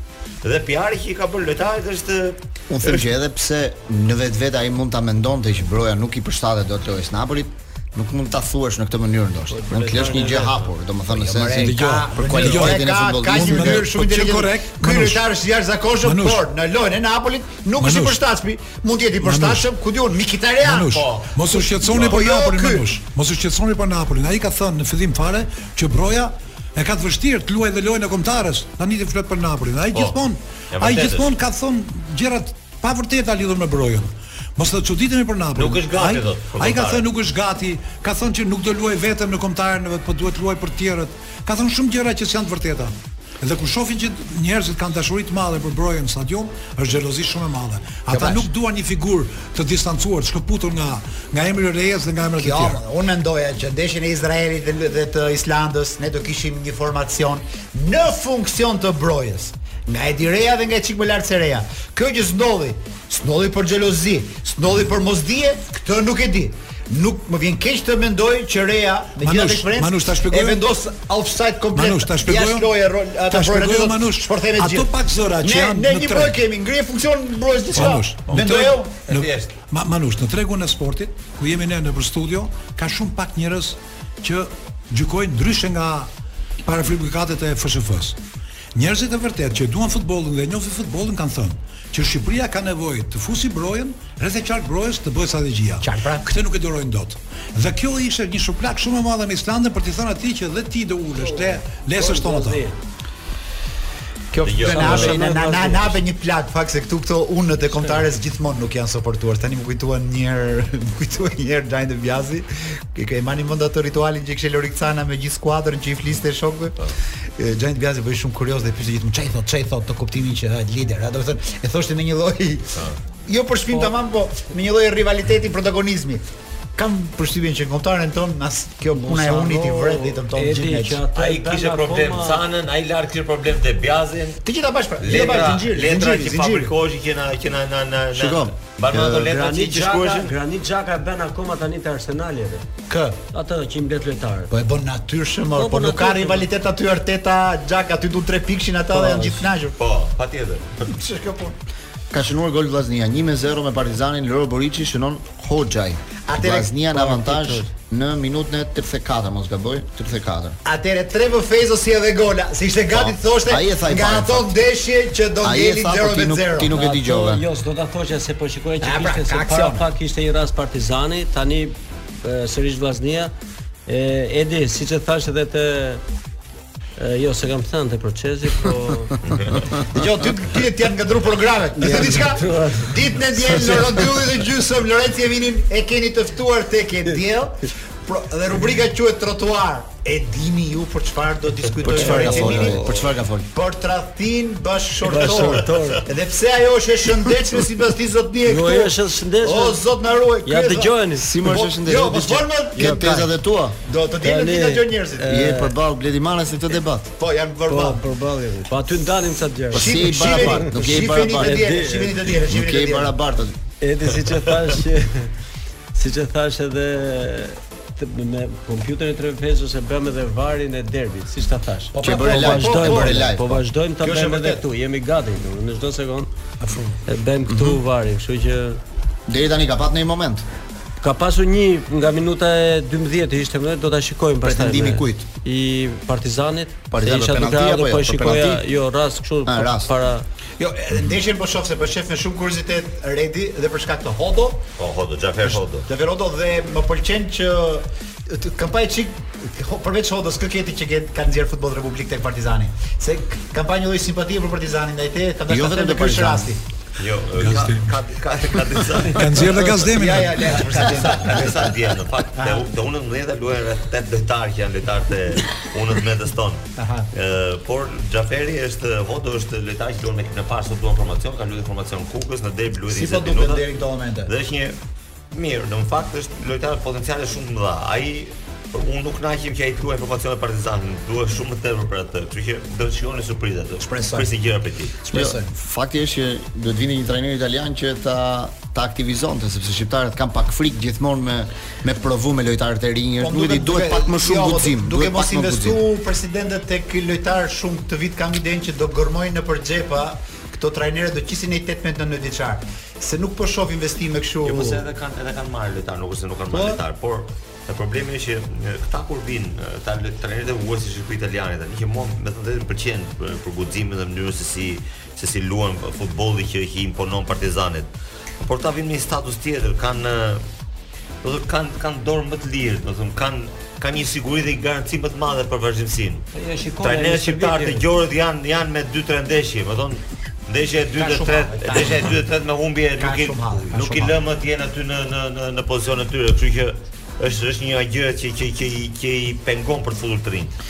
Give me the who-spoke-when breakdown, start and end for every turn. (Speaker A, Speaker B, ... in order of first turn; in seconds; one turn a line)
Speaker A: 0.4-3.1
Speaker B: 2.7-13.9
Speaker C: 9.5-10.7
Speaker D: 11.1-22.9
Speaker E: 11.6-15.2
Speaker E: 16.0-16.4
Speaker E: 17.8-18.2
Speaker E: 19.2-19.7
Speaker E: 20.6-52.8
Speaker A: 20.9-21.3
Speaker A: 21.8-22.2
Speaker A: 30.7-31.3
Speaker A: 35.6-37.0
Speaker D: 48.1-48.5
Speaker D: 52.4-79.0
Speaker E: 69.2-70.6
Speaker E: 71.7-72.7
Speaker E: 73.3-76.4
Speaker E: 77.7-86.1
Speaker A: 78.3-79.5
Speaker E: 86.7-88.2
Speaker E: 88.7-102.7
Speaker D: 95.8-96.2
Speaker C: 101.2-102.8
Speaker D: 104.3-126.2
Speaker A: 104.4-105.3
Speaker C: 104.7-106.0
Speaker D: 126.8-131.0
Speaker C: 128.9-132.4
Speaker A: 131.2-134.4
Speaker D: 134.4-136.7
Speaker A: 135.0-140.3
Speaker B: 138.1-139.3
Speaker C: 139.2-142.7
Speaker D: 142.9-143.2
Speaker C: 143.3-144.5
Speaker D: 144.5-149.8
Speaker C: 145.6-146.5
Speaker C: 148.9-149.5
Speaker A: 149.8-150.9
Speaker D: 150.9-151.6
Speaker B: 152.1-160.6
Speaker D: 156.3-157.2
Speaker C: 156.9-157.7
Speaker D: 160.7-166.8
Speaker B: 162.9-164.6
Speaker B: 165.4-167.4
Speaker C: 166.7-173.3
Speaker D: 168.8-169.8
Speaker C: 173.9-176.0
Speaker C: 177.0-179.2
Speaker A: 179.3-179.6
Speaker D: 179.7-192.9
Speaker C: 181.8-182.9
Speaker B: 191.8-193.5
Speaker C: 191.9-192.9
Speaker D: 193.5-203.3
Speaker C: 195.0-196.1
Speaker C: 198.4-199.8
Speaker C: 200.4-201.3
Speaker B: 201.2-203.8
Speaker D: 203.8-205.4
Speaker C: 204.2-205.8
Speaker B: 205.3-207.1
Speaker D: 207.2-208.0
Speaker C: 207.7-212.2
Speaker B: 209.7-211.7
Speaker D: 209.7-213.2
Speaker B: 212.5-213.6
Speaker C: 213.8-215.3
Speaker C: 215.9-226.3
Speaker D: 221.9-223.3
Speaker B: 222.0-223.6
Speaker D: 224.0-224.6
Speaker C: 227.1-228.8
Speaker B: 227.5-227.8
Speaker B: 229.3-230.5
Speaker C: 231.0-240.2
Speaker B: 234.4-235.3
Speaker B: 236.9-238.6
Speaker B: 239.4-239.9
Speaker D: 240.6-244.6
Speaker A: 244.8-245.9
Speaker D: 245.4-256.6
Speaker B: 255.5-256.5
Speaker A: 257.0-259.7
Speaker E: 257.4-257.9
Speaker E: 259.0-260.6
Speaker D: 259.9-261.8
Speaker A: 260.4-273.7
Speaker D: 262.4-262.7
Speaker D: 266.8-267.1
Speaker D: 272.9-274.3
Speaker A: 274.3-274.8
Speaker A: 275.3-285.0
Speaker D: 283.8-284.3
Speaker D: 285.0-285.5
Speaker B: 285.1-295.8
Speaker D: 293.2-304.8
Speaker A: 304.4-320.4
Speaker D: 306.5-306.8
Speaker A: 321.2-326.3
Speaker C: 326.3-327.9
Speaker A: 326.8-340.5
Speaker D: 331.0-332.1
Speaker D: 333.0-334.2